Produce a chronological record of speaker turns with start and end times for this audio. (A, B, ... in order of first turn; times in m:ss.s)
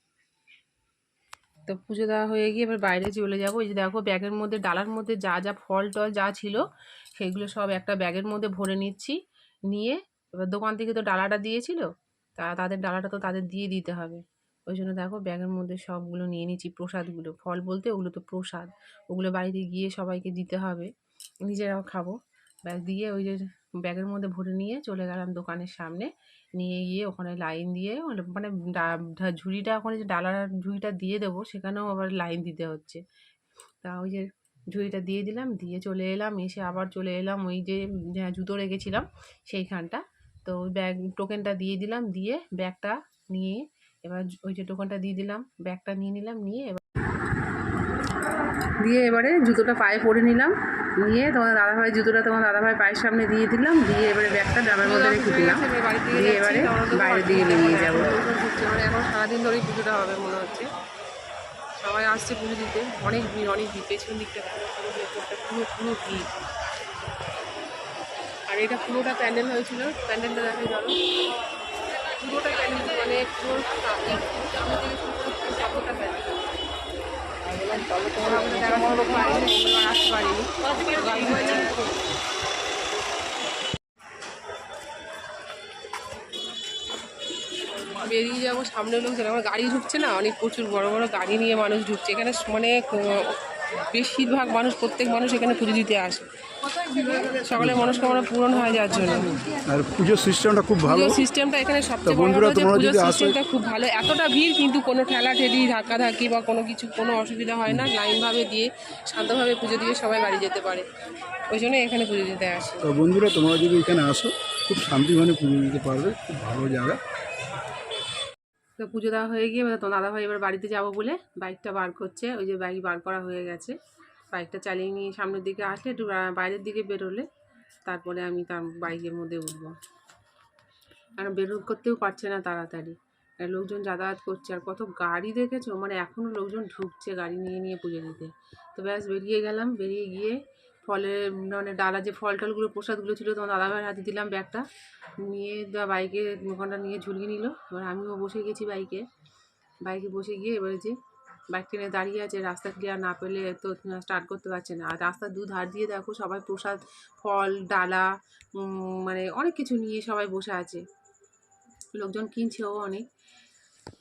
0:01.7-0:06.6 A
0:07.2-0:09.2 A
0:09.7-0:11.8 A
0:12.4-0:20.9 A
0:21.4-0:33.0 A
0:33.8-0:46.8 A
0:48.8-0:58.1 A
0:54.8-1:00.7 B
1:01.8-1:06.2 B
1:08.5-1:10.9 B
1:12.1-1:16.4 B
1:17.6-1:21.9 B
1:18.4-1:19.4 A
1:28.0-1:33.4 B
1:33.9-1:39.4 B
1:36.9-1:38.1 C
1:39.6-1:41.2 C
1:40.8-1:50.9 B
1:42.0-1:43.4 C
1:47.7-1:47.9 C
1:51.5-1:52.8 B
1:52.8-1:57.0 C
1:58.8-2:03.8 A
2:04.3-2:07.3 A
2:07.8-2:09.7 A
2:11.2-2:24.6 A
2:25.2-2:29.0 A
2:29.8-2:31.0 A
2:31.5-2:40.8 A
2:41.9-2:43.0 A